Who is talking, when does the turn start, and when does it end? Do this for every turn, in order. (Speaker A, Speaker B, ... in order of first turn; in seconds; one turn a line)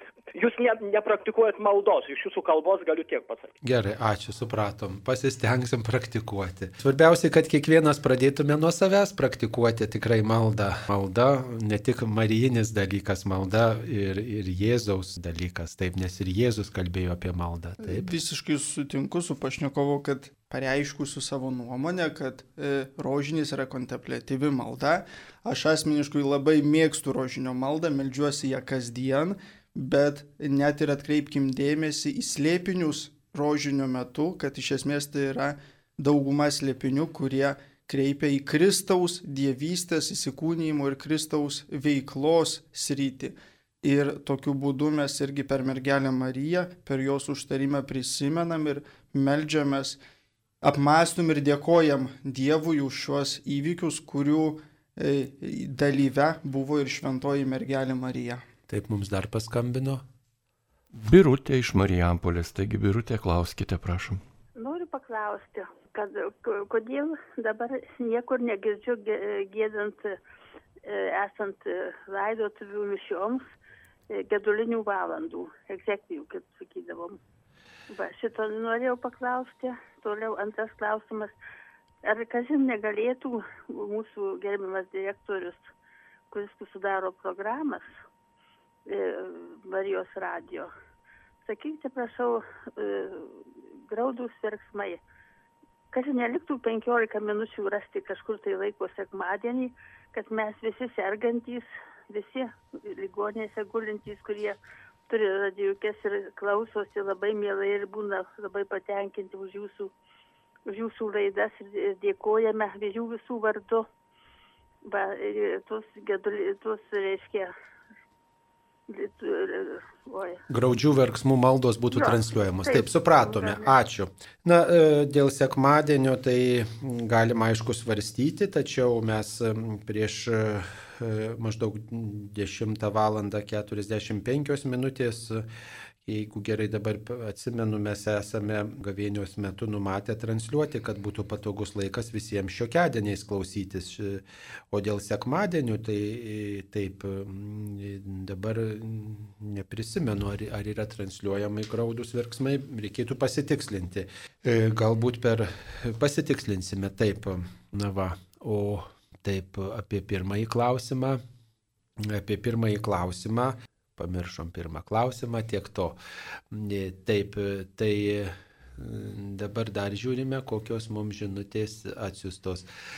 Speaker A: 0.3-3.5
Speaker B: 3.6-18.1
Speaker C: 17.8-50.0
Speaker C: 50.6-58.4
Speaker B: 58.7-60.0
Speaker D: 60.9-64.2
Speaker E: 64.5-70.2
Speaker E: 70.8-73.5
Speaker E: 74.1-77.2
Speaker E: 77.9-81.3
Speaker E: 82.0-85.7
Speaker E: 86.3-87.9
Speaker E: 88.8-90.7
Speaker E: 91.4-95.0
Speaker E: 95.9-104.6
Speaker E: 105.1-109.9
Speaker E: 110.7-113.9
Speaker E: 114.8-117.5
Speaker E: 118.9-120.4
Speaker B: 120.5-135.4
Speaker E: 121.9-123.7
Speaker B: 136.0-161.2
Speaker B: 162.0-166.0
Speaker B: 166.5-172.7